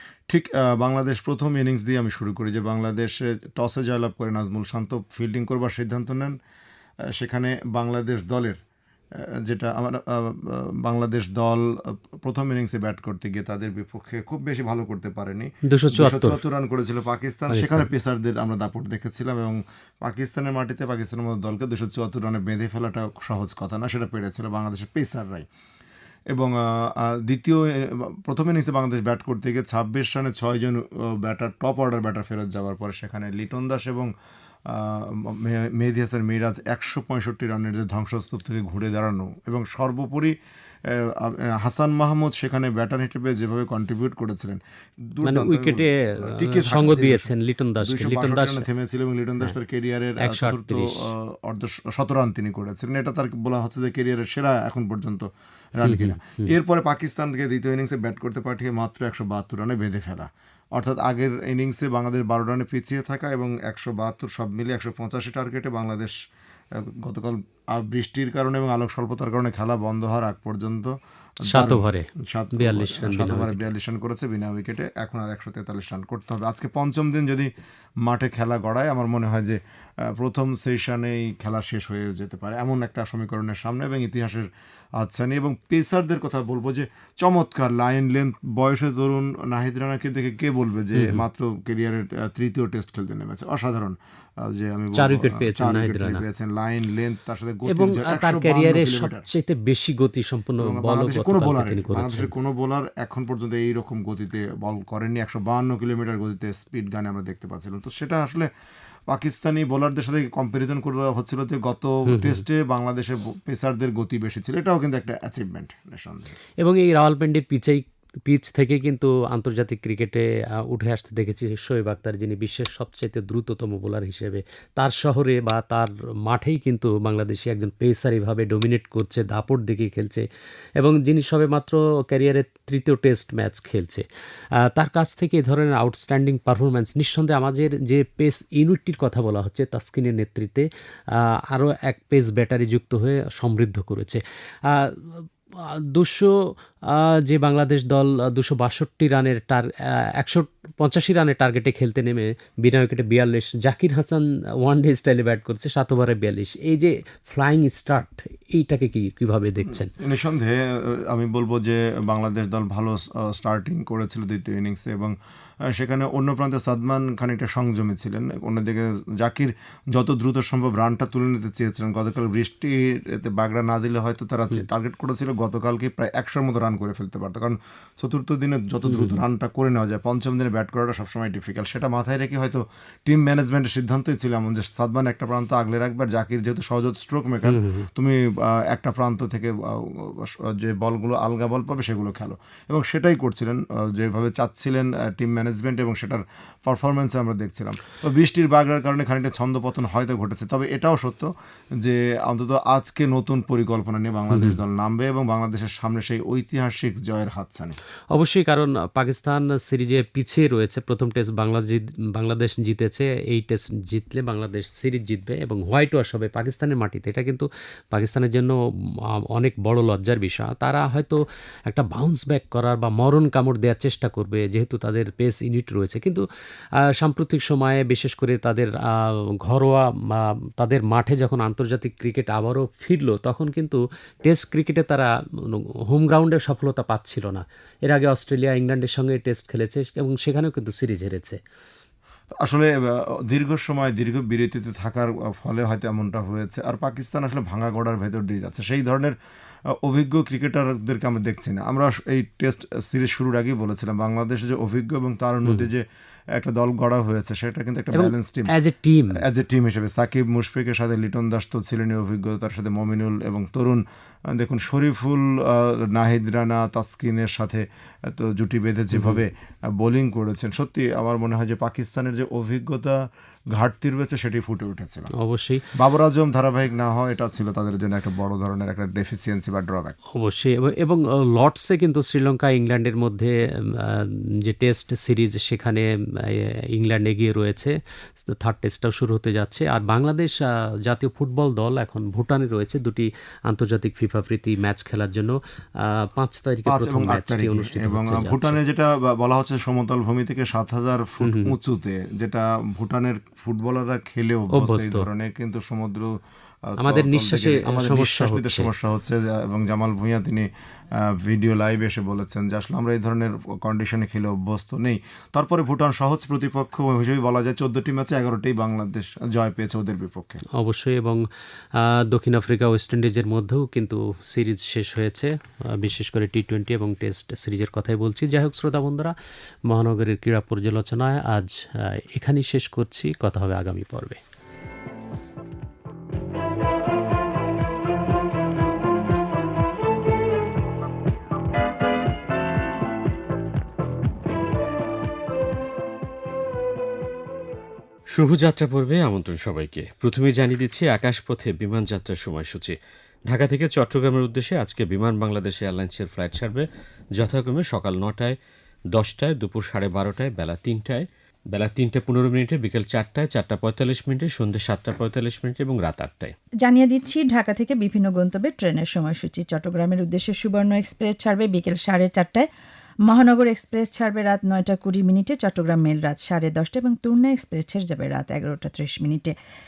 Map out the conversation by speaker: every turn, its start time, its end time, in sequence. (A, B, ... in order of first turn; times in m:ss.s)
0:00.3-0:06.4 A
0:07.2-0:08.6 A
0:09.4-0:25.4 A
0:15.7-0:16.4 B
0:17.5-0:17.9 B
0:26.3-0:34.1 A
0:34.7-0:40.3 A
0:40.9-0:44.6 A
0:45.1-0:55.3 A
0:45.2-0:48.6 B
0:50.2-0:50.8 B
0:55.8-1:06.1 A
0:55.8-0:56.5 B
1:07.0-1:17.5 A
1:11.5-1:13.6 B
1:18.0-1:24.5 A
1:25.0-1:39.3 A
1:31.0-1:31.2 B
1:35.0-1:36.2 B
1:37.7-1:42.3 B
1:40.6-1:48.5 A
1:49.1-1:56.4 A
1:52.1-1:52.4 B
1:56.6-2:10.2 B
2:10.8-2:14.0 B
2:14.6-2:20.6 B
2:21.5-2:25.2 B
2:25.9-2:26.3 B
2:26.9-2:39.9 B
2:39.7-3:27.8 A
2:58.8-2:59.2 B
3:07.4-3:07.9 B
3:24.3-3:24.6 B
3:28.1-3:38.6 B
3:39.3-3:46.2 B
3:47.0-4:01.4 B
4:02.4-4:09.1 A
4:09.8-4:18.5 A
4:17.9-4:19.2 B
4:19.2-4:35.1 A
4:28.9-4:29.2 B
4:35.2-4:35.6 B
4:35.7-4:40.0 A
4:40.2-4:47.7 B
4:48.2-4:58.6 B
4:56.6-5:06.1 A
5:01.2-5:01.5 B
5:04.5-5:05.1 B
5:06.7-5:20.4 A
5:06.8-5:08.7 B
5:20.6-5:21.2 B
5:21.8-5:29.1 B
5:29.7-5:34.2 B
5:48.1-5:52.8 C
5:53.3-5:58.4 C
5:58.9-6:06.4 C
6:06.6-6:12.5 D
6:13.1-6:19.3 D